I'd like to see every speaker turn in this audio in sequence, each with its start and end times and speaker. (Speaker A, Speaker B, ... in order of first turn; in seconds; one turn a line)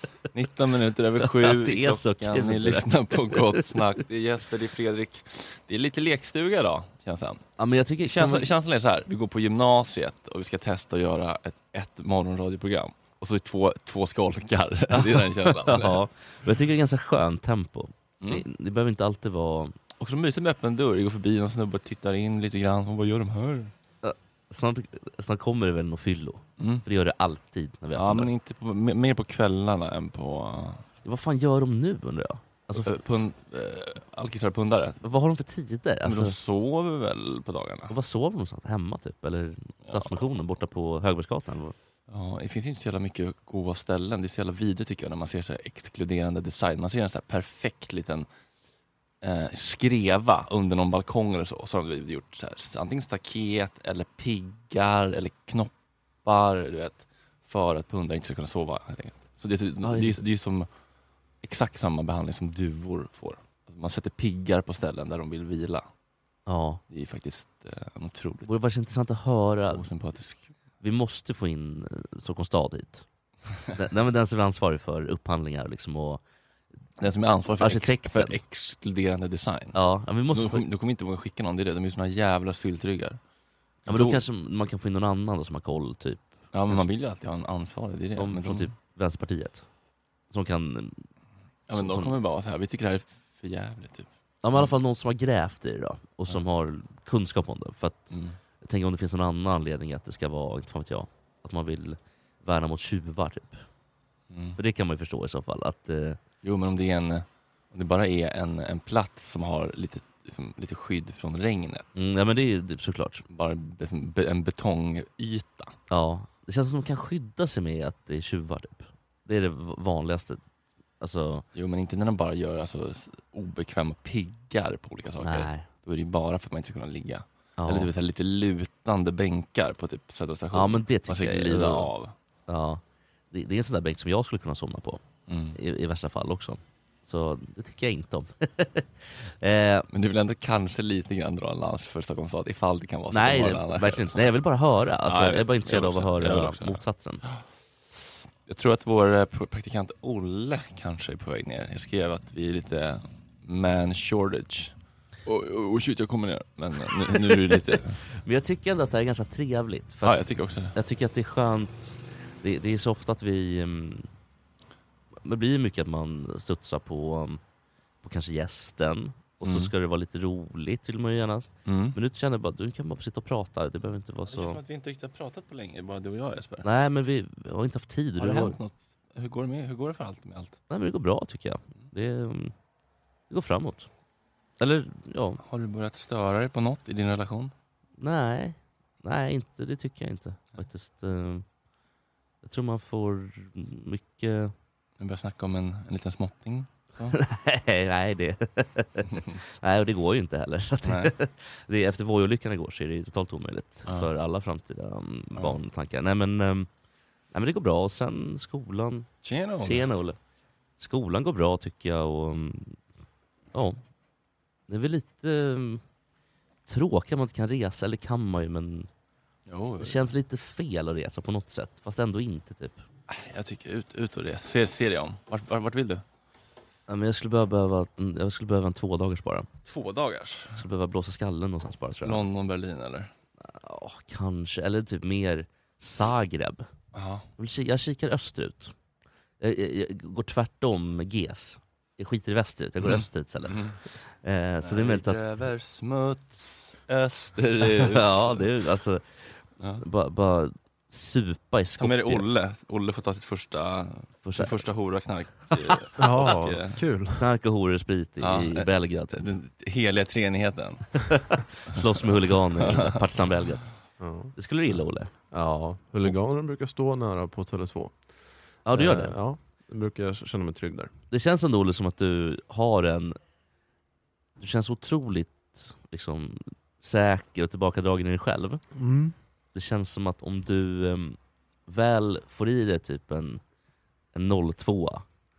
Speaker A: 0.3-7.4
Speaker B: 1.2-3.6
Speaker B: 7.6-8.5
Speaker A: 8.1-16.0
Speaker B: 14.9-19.7
Speaker A: 20.0-23.7
Speaker B: 24.0-28.3
Speaker A: 26.6-26.9
Speaker A: 27.9-30.8
Speaker B: 31.0-33.0
Speaker A: 32.7-35.0
Speaker B: 35.0-36.4
Speaker A: 36.0-37.9
Speaker B: 37.9-41.7
Speaker A: 39.8-40.2
Speaker A: 42.1-48.3
Speaker A: 49.2-55.7
Speaker A: 56.2-60.7
Speaker B: 59.8-60.2
Speaker A: 61.4-65.8
Speaker B: 66.5-66.8
Speaker A: 66.9-68.5
Speaker B: 68.5-69.8
Speaker A: 69.7-70.5
Speaker B: 70.8-73.0
Speaker B: 73.7-76.2
Speaker A: 77.0-79.8
Speaker B: 77.6-78.4
Speaker B: 79.7-80.6
Speaker A: 80.3-83.2
Speaker A: 83.8-84.2
Speaker B: 83.9-86.8
Speaker A: 86.5-88.7
Speaker B: 88.2-89.6
Speaker B: 90.3-91.0
Speaker A: 91.7-94.7
Speaker B: 91.7-92.1
Speaker B: 94.4-103.6
Speaker A: 98.1-98.4
Speaker A: 104.3-104.6
Speaker B: 104.5-106.2
Speaker A: 106.4-112.0
Speaker B: 112.0-113.2
Speaker A: 113.3-115.8
Speaker B: 115.9-120.4
Speaker B: 121.0-121.5
Speaker A: 121.5-132.1
Speaker B: 125.2-125.7
Speaker B: 127.6-127.9
Speaker B: 130.5-131.9
Speaker B: 132.5-135.0
Speaker A: 135.3-135.6
Speaker B: 135.5-139.9
Speaker A: 139.9-144.3
Speaker B: 143.1-147.2
Speaker A: 145.1-147.4
Speaker A: 148.4-154.7
Speaker A: 155.2-158.0
Speaker B: 158.2-164.1
Speaker A: 160.0-160.7
Speaker B: 165.2-167.4
Speaker B: 168.0-174.6
Speaker A: 169.4-169.7
Speaker A: 171.7-171.9
Speaker A: 174.3-176.7
Speaker B: 176.6-178.6
Speaker A: 178.2-180.6
Speaker B: 180.7-182.5
Speaker B: 183.3-183.9
Speaker B: 184.6-185.4
Speaker A: 185.4-187.5
Speaker B: 188.0-191.4
Speaker B: 192.4-194.5
Speaker A: 195.0-197.2
Speaker B: 197.1-206.7
Speaker A: 199.1-199.4
Speaker A: 200.8-201.1
Speaker B: 207.3-209.1
Speaker A: 209.2-209.9
Speaker B: 209.6-210.2
Speaker B: 210.8-212.8
Speaker B: 213.5-213.8
Speaker B: 214.7-215.8
Speaker B: 216.7-218.9
Speaker A: 219.5-220.0
Speaker B: 219.8-222.8
Speaker A: 223.1-226.0
Speaker B: 226.9-229.5
Speaker A: 229.7-230.6
Speaker B: 230.5-232.2
Speaker A: 232.0-233.1
Speaker B: 233.4-236.7
Speaker A: 236.9-237.3
Speaker B: 237.4-238.7
Speaker B: 239.4-245.2
Speaker A: 242.8-243.8
Speaker A: 244.6-248.5
Speaker B: 247.6-249.0
Speaker B: 249.8-252.2
Speaker A: 251.8-256.8
Speaker B: 254.2-254.5
Speaker C: 256.0-257.2
Speaker B: 257.1-259.3
Speaker A: 258.2-261.0
Speaker B: 261.1-263.8
Speaker A: 261.8-263.0
Speaker C: 264.0-264.3
Speaker B: 264.3-265.1
Speaker C: 265.3-268.1
Speaker B: 268.6-269.2
Speaker C: 268.7-270.9
Speaker B: 271.1-273.2
Speaker B: 274.4-278.6
Speaker C: 278.7-279.1
Speaker B: 279.5-283.4
Speaker B: 284.1-285.0